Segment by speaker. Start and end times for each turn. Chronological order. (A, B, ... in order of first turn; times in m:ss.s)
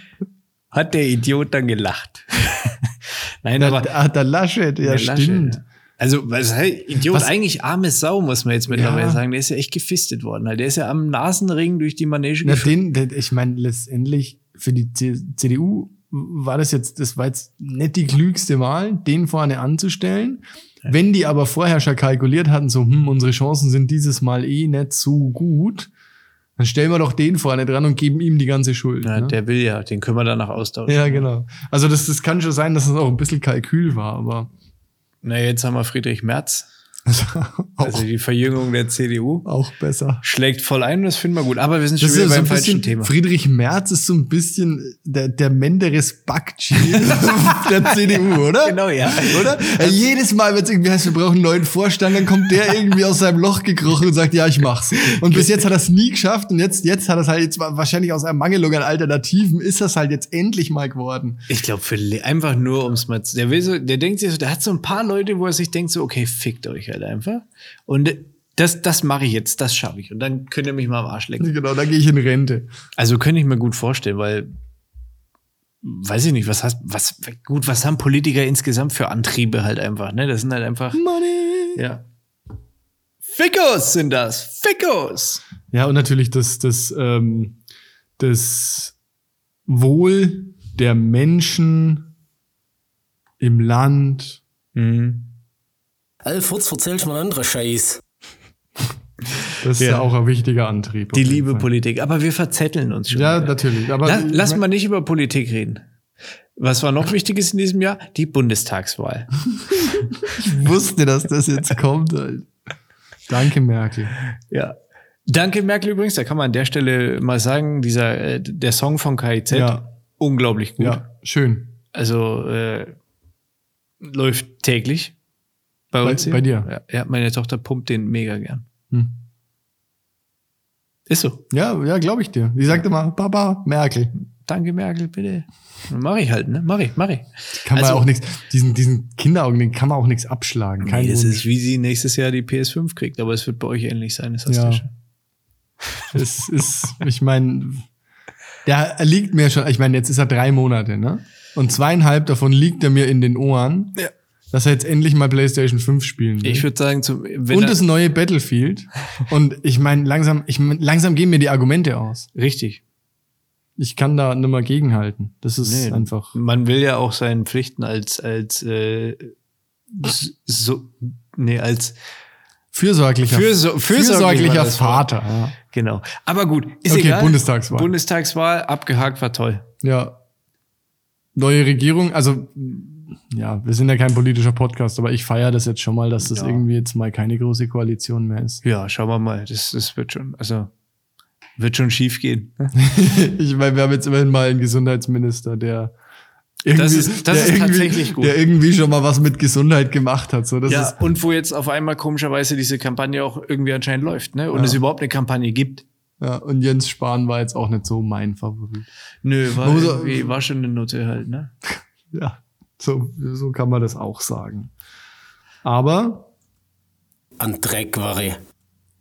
0:00.7-0:03.9 A
0:03.6-0:05.6 B
0:04.8-0:12.8 A
0:08.7-0:09.2 B
0:12.4-0:25.9 B
0:26.6-0:29.4 B
0:29.0-0:31.3 A
0:30.9-0:34.5 B
0:35.2-0:36.7 A
0:37.1-0:38.0 B
0:37.8-0:39.5 A
0:39.4-0:40.2 B
0:40.2-0:43.1 A
0:42.0-1:01.4 B
0:46.8-0:50.1 A
0:55.0-0:55.7 A
1:01.5-1:11.6 A
1:11.4-1:12.7 B
1:13.0-1:14.5 A
1:15.8-1:21.0 A
1:20.9-1:21.8 B
1:21.8-1:22.0 A
1:23.3-1:25.4 A
1:25.7-1:27.6 B
1:28.2-1:28.9 B
1:29.7-1:32.1 B
1:33.4-1:34.4 B
1:34.8-1:35.3 A
1:36.2-1:38.0 C
1:39.6-1:41.7 B
1:39.8-1:40.1 A
1:41.1-1:45.8 A
1:43.1-1:44.6 B
1:46.6-1:49.3 A
1:49.7-1:52.5 B
1:53.3-1:54.1 B
1:54.5-1:54.8 A
1:55.3-2:01.0 A
1:59.5-1:59.8 B
2:00.8-2:01.7 B
2:01.9-2:03.0 A
2:04.0-2:05.1 A
2:05.9-2:08.7 A
2:06.0-2:06.7 B
2:11.1-2:11.4 A
2:11.5-2:14.1 B
2:14.4-2:18.1 A
2:17.6-2:21.5 B
2:20.8-2:24.9 A
2:24.5-2:24.8 B
2:26.1-2:27.9 B
2:28.6-2:34.0 B
2:34.5-2:36.7 B
2:36.4-2:37.8 A
2:37.5-2:42.3 B
2:42.4-2:42.8 A
2:43.8-2:46.4 B
2:45.6-2:49.3 A
2:49.9-2:52.0 A
2:52.7-2:55.6 B
2:53.3-2:55.1 A
2:55.7-2:59.6 A
2:56.9-2:57.9 B
2:59.8-3:00.2 B
3:01.4-3:08.6 B
3:06.2-3:06.6 A
3:08.6-3:10.7 A
3:11.6-3:12.7 A
3:12.8-3:15.9 B
3:16.6-3:21.0 B
3:16.8-3:18.4 A
3:20.7-3:25.8 A
3:24.5-3:24.8 B
3:26.2-3:28.9 B
3:29.2-3:31.5 A
3:29.6-3:30.3 B
3:32.1-3:34.7 B
3:35.6-3:36.3 B
3:37.4-3:38.4 C